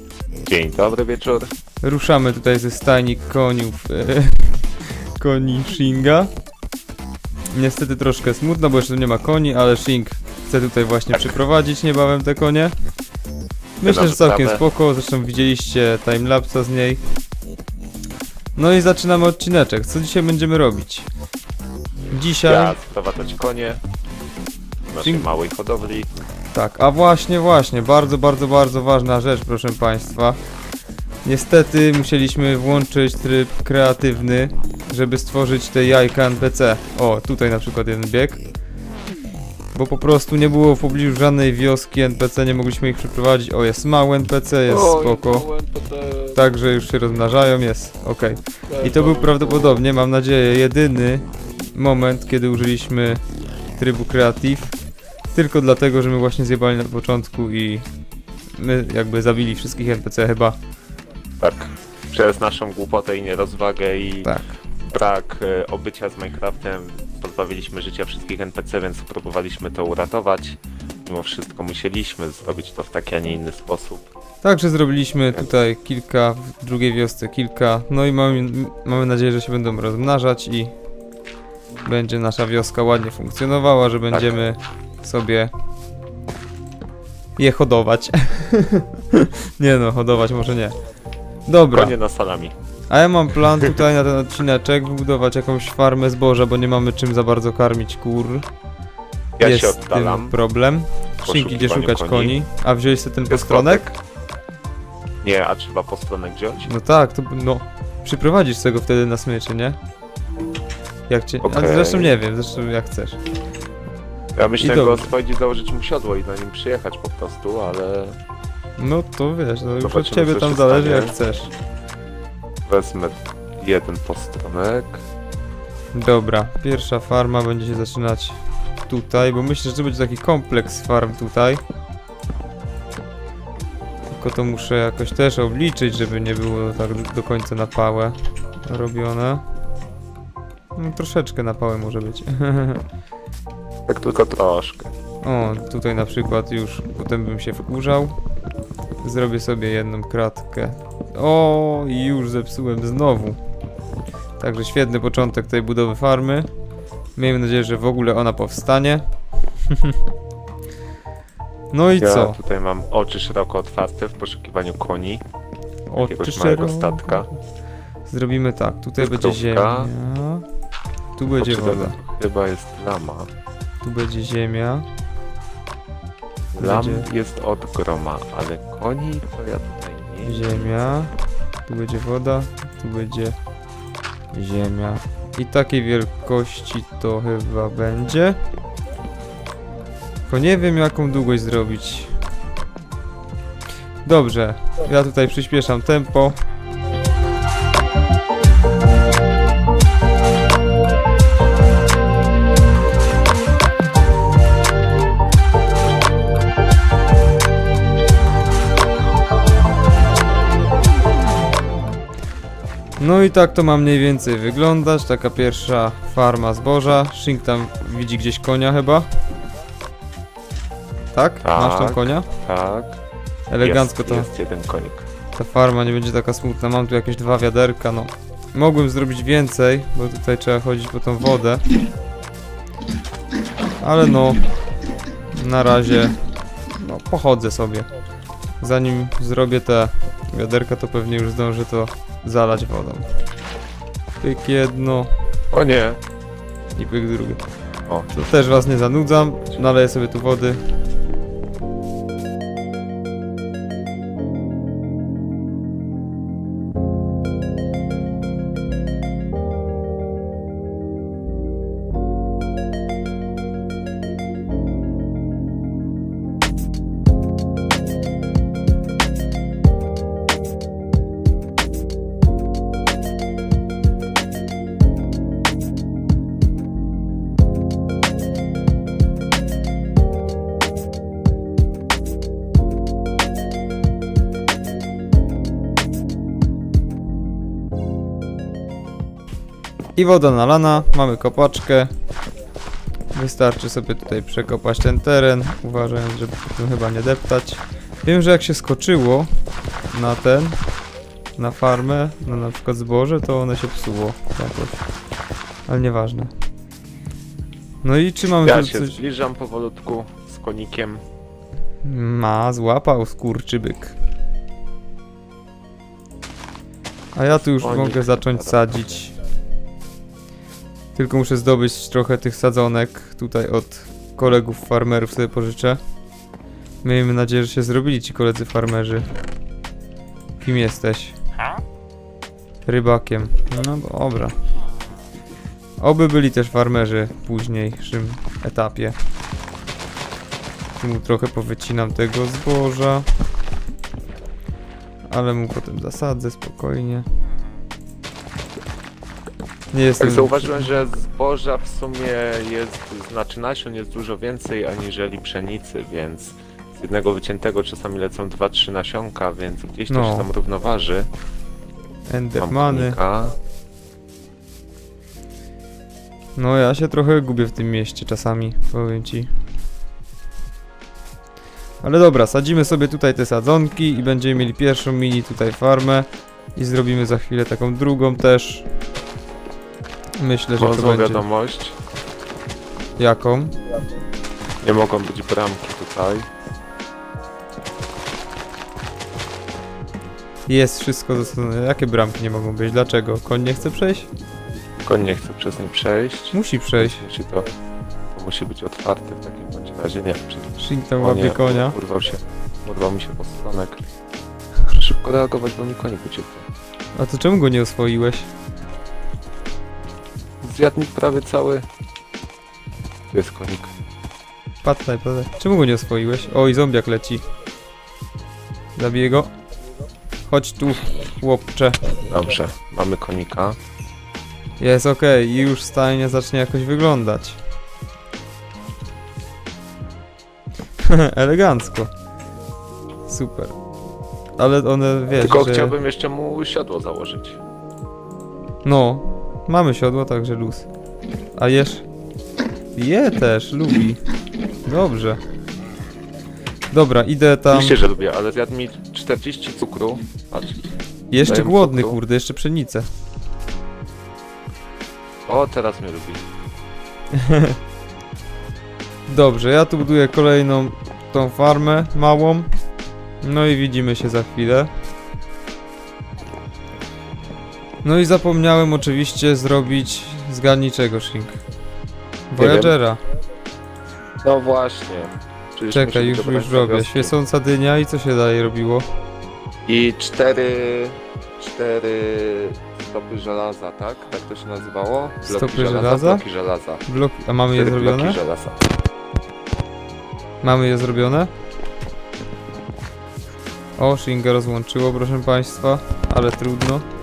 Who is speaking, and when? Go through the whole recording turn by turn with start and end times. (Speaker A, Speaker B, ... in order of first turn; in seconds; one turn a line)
Speaker A: 0.4-1.5
Speaker B: 1.8-4.5
Speaker B: 5.2-6.3
Speaker B: 7.5-12.7
Speaker B: 13.8-17.0
Speaker A: 13.8-14.6
Speaker B: 18.6-21.1
Speaker B: 22.1-22.8
Speaker A: 22.4-23.8
Speaker A: 24.9-26.1
Speaker B: 25.0-25.3
Speaker B: 26.5-30.4
Speaker B: 31.2-38.4
Speaker B: 39.7-45.5
Speaker A: 44.7-46.4
Speaker B: 46.4-53.2
Speaker A: 48.7-49.8
Speaker B: 53.8-54.8
Speaker B: 55.3-57.9
Speaker B: 58.5-60.6
Speaker A: 61.4-64.3
Speaker B: 64.2-64.6
Speaker A: 64.9-74.1
Speaker B: 74.4-80.7
Speaker B: 81.8-85.5
Speaker A: 84.1-84.4
Speaker B: 87.4-90.8
Speaker B: 91.5-92.0
Speaker A: 91.7-92.5
Speaker B: 92.9-98.5
Speaker A: 99.4-100.3
Speaker B: 99.4-103.8
Speaker A: 101.2-102.4
Speaker A: 103.3-104.0
Speaker A: 105.2-106.7
Speaker B: 106.7-109.8
Speaker B: 111.1-113.2
Speaker A: 111.4-112.2
Speaker A: 114.3-118.2
Speaker B: 114.6-115.1
Speaker B: 118.8-121.5
Speaker A: 119.8-121.2
Speaker A: 122.7-125.0
Speaker B: 125.9-131.6
Speaker B: 134.1-139.4
Speaker B: 140.8-142.8
Speaker A: 143.9-144.9
Speaker B: 145.2-148.2
Speaker B: 149.0-153.4
Speaker B: 154.4-156.5
Speaker B: 157.2-159.1
Speaker B: 161.7-162.4
Speaker A: 162.0-165.2
Speaker B: 165.9-167.3
Speaker A: 166.0-167.3
Speaker B: 168.1-170.4
Speaker A: 169.0-169.9
Speaker B: 171.2-172.0
Speaker A: 171.4-173.3
Speaker B: 173.8-174.9
Speaker A: 176.6-180.8
Speaker B: 176.6-177.1
Speaker B: 180.2-181.1
Speaker B: 181.7-183.4
Speaker B: 184.3-188.4
Speaker B: 190.3-192.2
Speaker B: 194.1-196.4
Speaker B: 213.0-219.1
Speaker B: 221.1-222.3
Speaker A: 221.4-223.0
Speaker B: 223.5-224.3
Speaker A: 223.6-225.1
Speaker B: 225.4-231.6
Speaker B: 233.8-234.4
Speaker B: 235.3-236.2
Speaker B: 236.7-237.9
Speaker B: 238.6-243.1
Speaker B: 244.2-245.1
Speaker A: 245.5-246.0
Speaker B: 246.8-247.4
Speaker A: 247.9-248.3
Speaker B: 248.2-250.6
Speaker B: 290.0-291.9
Speaker B: 293.1-299.3
Speaker B: 299.9-300.6
Speaker B: 301.4-304.8
Speaker B: 305.7-306.3
Speaker B: 307.8-309.0
Speaker A: 308.4-311.0
Speaker B: 311.8-314.0
Speaker B: 317.1-319.1
Speaker A: 317.5-318.6
Speaker B: 320.9-325.8
Speaker B: 326.8-329.1
Speaker B: 330.4-331.2
Speaker B: 332.7-334.4
Speaker B: 335.8-339.0
Speaker B: 340.8-343.1
Speaker B: 345.1-347.1
Speaker B: 349.7-350.7
Speaker A: 350.0-361.1
Speaker B: 359.9-360.3
Speaker B: 362.1-363.0
Speaker A: 362.4-363.4
Speaker B: 366.4-369.3
Speaker B: 371.8-378.7
Speaker B: 380.2-381.2
Speaker A: 380.6-381.8
Speaker B: 383.0-383.6
Speaker A: 384.6-386.3
Speaker B: 390.5-394.1
Speaker A: 394.8-397.5
Speaker B: 396.3-397.1
Speaker A: 398.1-403.9
Speaker B: 400.6-401.8
Speaker A: 404.7-406.5
Speaker B: 406.9-408.3
Speaker A: 410.4-411.7
Speaker A: 413.1-413.7
Speaker B: 414.6-417.2
Speaker B: 418.8-419.3
Speaker B: 420.3-421.8
Speaker A: 422.1-423.6
Speaker B: 424.6-427.4
Speaker B: 430.8-431.9
Speaker B: 433.1-433.6
Speaker B: 434.4-435.8
Speaker A: 435.2-437.4
Speaker B: 438.6-440.7
Speaker B: 441.4-441.8
Speaker B: 442.8-444.0
Speaker B: 444.6-445.2
Speaker B: 446.7-447.8
Speaker A: 447.5-450.7
Speaker B: 451.1-452.9
Speaker A: 451.2-452.0
Speaker A: 455.3-456.2
Speaker B: 457.1-457.6
Speaker B: 459.1-462.5
Speaker B: 463.2-464.7
Speaker B: 467.8-471.4
Speaker B: 472.3-473.0
Speaker A: 472.4-472.8
Speaker A: 474.2-477.1
Speaker B: 475.7-478.9
Speaker A: 479.7-486.8
Speaker B: 485.3-486.2
Speaker B: 486.9-488.2
Speaker A: 487.5-488.6
Speaker B: 490.4-491.3
Speaker B: 493.8-496.9